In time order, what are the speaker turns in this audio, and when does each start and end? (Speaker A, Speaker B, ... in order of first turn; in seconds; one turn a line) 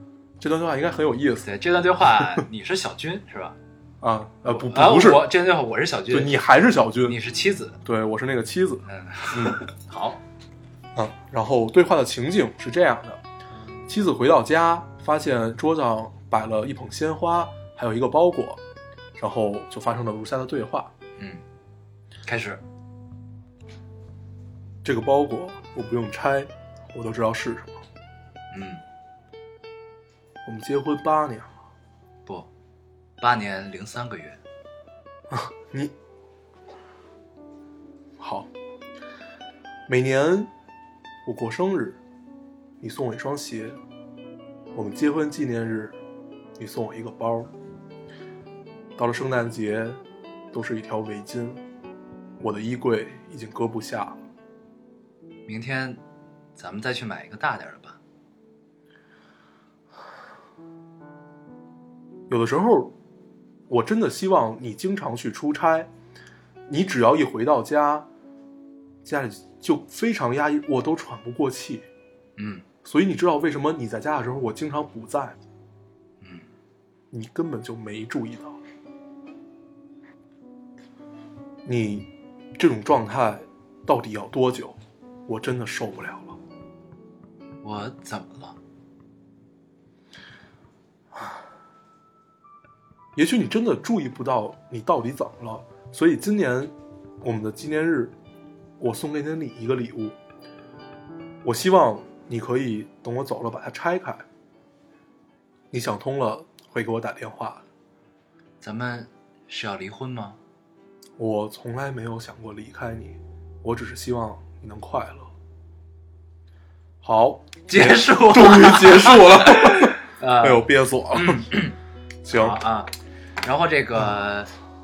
Speaker A: 0.4-1.5
Speaker B: 1.4-3.5
Speaker A: 4.0-5.3
Speaker B: 4.5-6.3
Speaker A: 6.1-7.2
Speaker B: 7.0-7.8
Speaker A: 7.8-9.6
Speaker B: 8.9-10.2
Speaker A: 10.9-13.2
Speaker A: 13.9-18.6
Speaker A: 19.2-20.9
Speaker B: 22.2-22.6
Speaker A: 24.8-27.8
Speaker B: 28.5-28.8
Speaker A: 30.4-31.5
Speaker B: 33.2-34.4
Speaker A: 35.3-35.9
Speaker A: 38.2-38.5
Speaker A: 39.9-40.5
Speaker A: 41.2-42.0
Speaker A: 42.8-43.8
Speaker A: 44.7-46.0
Speaker A: 46.6-47.5
Speaker A: 49.0-50.0
Speaker A: 50.5-51.6
Speaker A: 52.4-54.2
Speaker B: 55.5-56.0
Speaker B: 56.6-58.0
Speaker A: 62.3-62.9
Speaker A: 63.7-65.9
Speaker A: 66.7-68.1
Speaker A: 69.0-71.9
Speaker B: 72.4-72.6
Speaker A: 72.8-75.3
Speaker B: 76.2-76.5
Speaker A: 77.1-78.6
Speaker A: 81.6-86.4
Speaker B: 87.6-88.6
Speaker A: 93.1-98.1
Speaker A: 98.8-100.2
Speaker A: 101.4-104.2
Speaker A: 105.7-107.6
Speaker B: 108.6-110.4
Speaker A: 111.2-115.3
Speaker A: 117.0-121.5
Speaker B: 117.7-121.7
Speaker A: 122.2-122.6
Speaker B: 122.3-122.9
Speaker B: 123.4-124.5